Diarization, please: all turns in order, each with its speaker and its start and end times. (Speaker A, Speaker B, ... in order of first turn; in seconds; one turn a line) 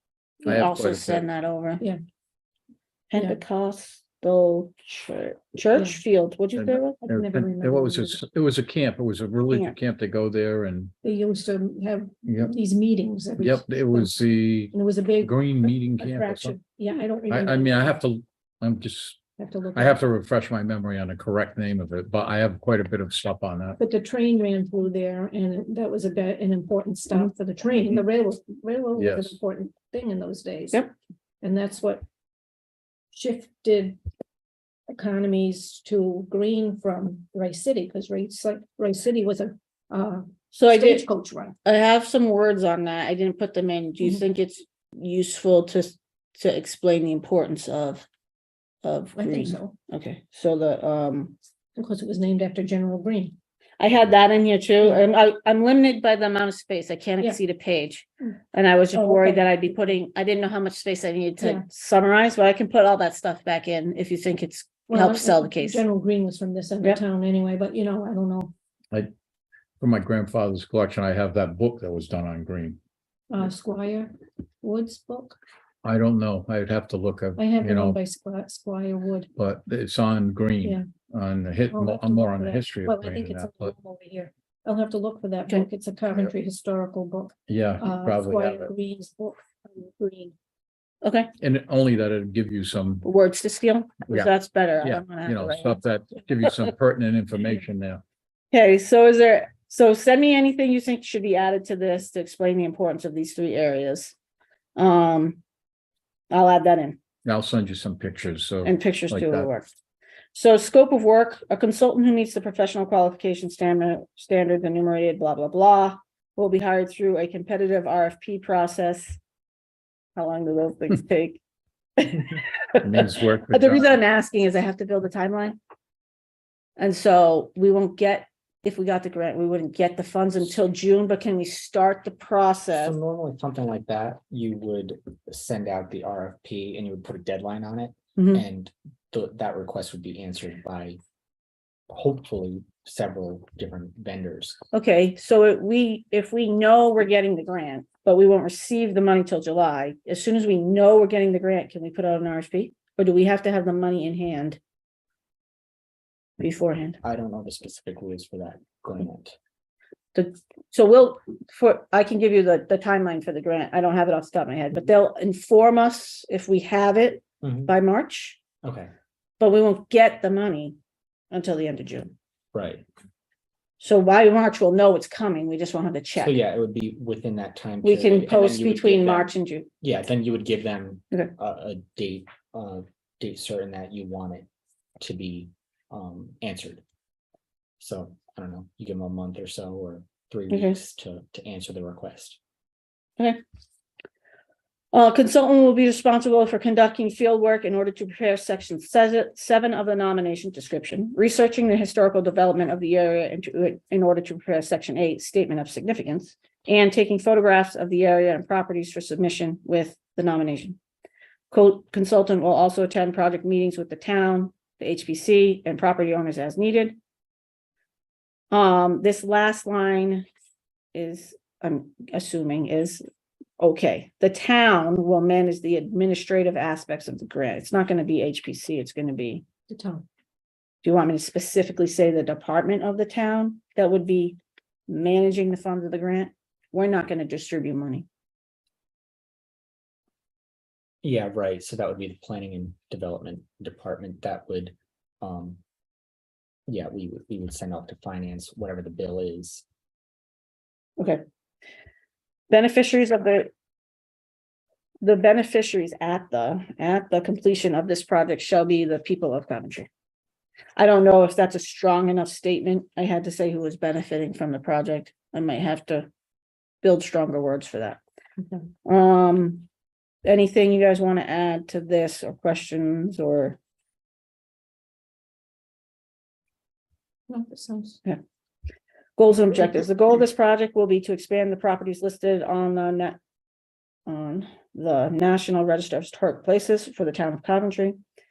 Speaker A: 0.4-1.8
Speaker B: 0.5-1.3
Speaker A: 3.1-7.0
Speaker C: 5.8-6.0
Speaker B: 6.6-10.9
Speaker C: 6.9-8.2
Speaker C: 11.0-14.1
Speaker B: 12.2-12.5
Speaker B: 13.4-16.6
Speaker C: 14.7-17.8
Speaker B: 17.3-19.2
Speaker C: 19.4-20.0
Speaker B: 19.7-23.8
Speaker C: 23.8-30.8
Speaker B: 29.0-29.4
Speaker C: 31.4-32.0
Speaker C: 33.1-34.0
Speaker C: 34.9-41.5
Speaker A: 40.5-41.0
Speaker A: 41.6-48.1
Speaker A: 48.8-51.4
Speaker C: 49.2-49.8
Speaker C: 51.8-53.4
Speaker A: 53.8-65.8
Speaker C: 58.9-59.5
Speaker C: 61.4-61.6
Speaker C: 64.9-68.5
Speaker B: 69.8-72.8
Speaker C: 73.3-75.4
Speaker B: 75.8-78.0
Speaker C: 77.4-79.3
Speaker B: 79.4-83.8
Speaker C: 81.7-90.3
Speaker B: 87.5-88.7
Speaker A: 91.0-91.3
Speaker B: 91.4-93.1
Speaker A: 93.0-95.8
Speaker B: 94.1-98.0
Speaker A: 98.5-104.2
Speaker A: 104.8-105.4
Speaker A: 106.3-107.0
Speaker B: 107.2-109.5
Speaker A: 108.6-109.7
Speaker A: 110.3-119.2
Speaker A: 120.2-121.4
Speaker A: 122.0-125.6
Speaker B: 122.8-124.0
Speaker A: 126.8-133.0
Speaker D: 132.8-141.0
Speaker A: 138.2-138.4
Speaker D: 141.9-144.6
Speaker A: 144.7-154.6
Speaker A: 156.4-157.0
Speaker D: 157.0-159.4
Speaker A: 160.2-168.4
Speaker D: 167.4-167.7
Speaker D: 168.6-168.9
Speaker A: 169.4-170.8
Speaker A: 171.3-172.1
Speaker D: 172.5-172.8
Speaker A: 173.8-176.4
Speaker D: 176.2-179.3
Speaker A: 177.8-179.7
Speaker D: 179.8-184.5
Speaker D: 185.0-186.8
Speaker D: 187.8-192.4
Speaker A: 190.5-190.8
Speaker A: 194.9-210.8
Speaker A: 211.5-217.0
Speaker A: 218.5-220.3
Speaker A: 220.9-223.0
Speaker A: 223.6-229.4
Speaker C: 229.7-230.1
Speaker A: 230.8-238.1
Speaker D: 241.0-245.6
Speaker D: 246.7-249.6
Speaker A: 252.5-253.5
Speaker A: 255.0-259.9
Speaker A: 260.8-266.1
Speaker A: 266.8-268.0
Speaker A: 268.9-269.7
Speaker A: 270.2-273.6
Speaker C: 277.3-278.0
Speaker A: 279.2-283.2
Speaker A: 284.1-288.0